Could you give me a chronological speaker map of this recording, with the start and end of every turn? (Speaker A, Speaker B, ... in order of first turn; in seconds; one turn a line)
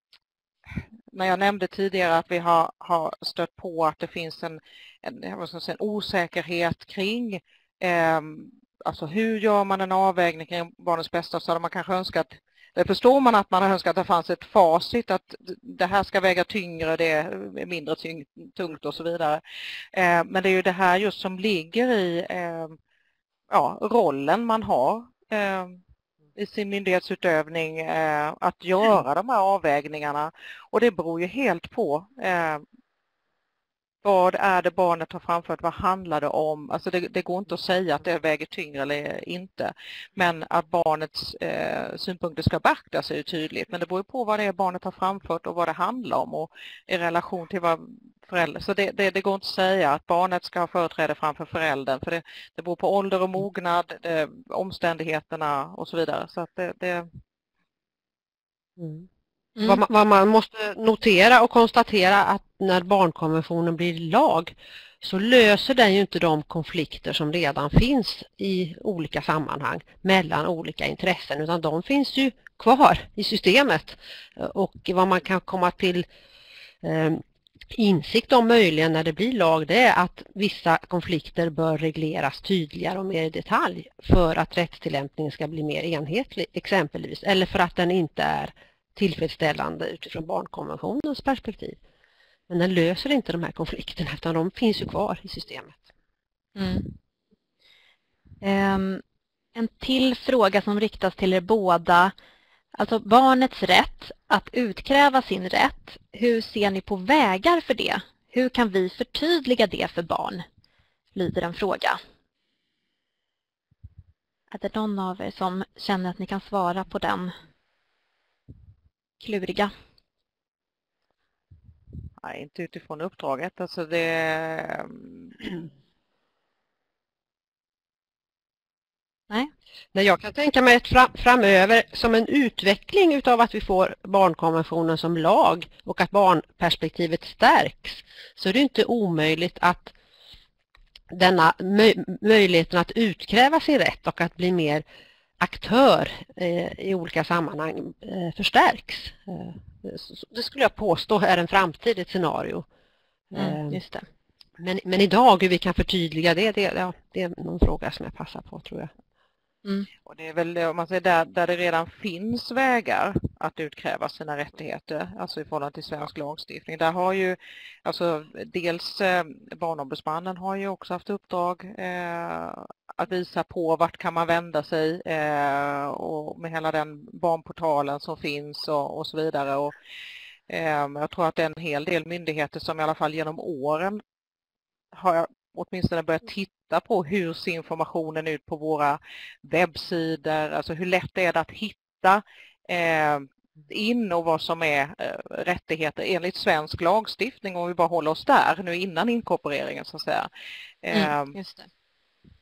Speaker A: 0.7-19.4
Speaker A: 19.9-22.8
Speaker A: 23.5-25.8
Speaker A: 26.4-32.6
Speaker A: 34.0-57.1
Speaker B: 58.8-59.1
Speaker C: 59.6-59.8
Speaker B: 59.6-76.1
Speaker B: 76.8-91.8
Speaker B: 92.5-95.8
Speaker C: 96.6-96.9
Speaker C: 98.4-99.0
Speaker C: 99.5-102.1
Speaker C: 102.8-110.4
Speaker C: 111.1-112.0
Speaker C: 114.5-117.3
Speaker C: 119.2-119.7
Speaker A: 122.2-125.7
Speaker B: 129.9-139.9
Speaker B: 141.1-144.8
Speaker B: 145.4-152.7
Speaker B: 153.3-153.8
Speaker C: 153.3-154.1
Speaker B: 154.6-158.9
Speaker A: 160.1-179.8
Speaker A: 180.5-184.0
Speaker A: 184.9-200.3
Speaker A: 200.8-201.3
Speaker C: 200.9-201.7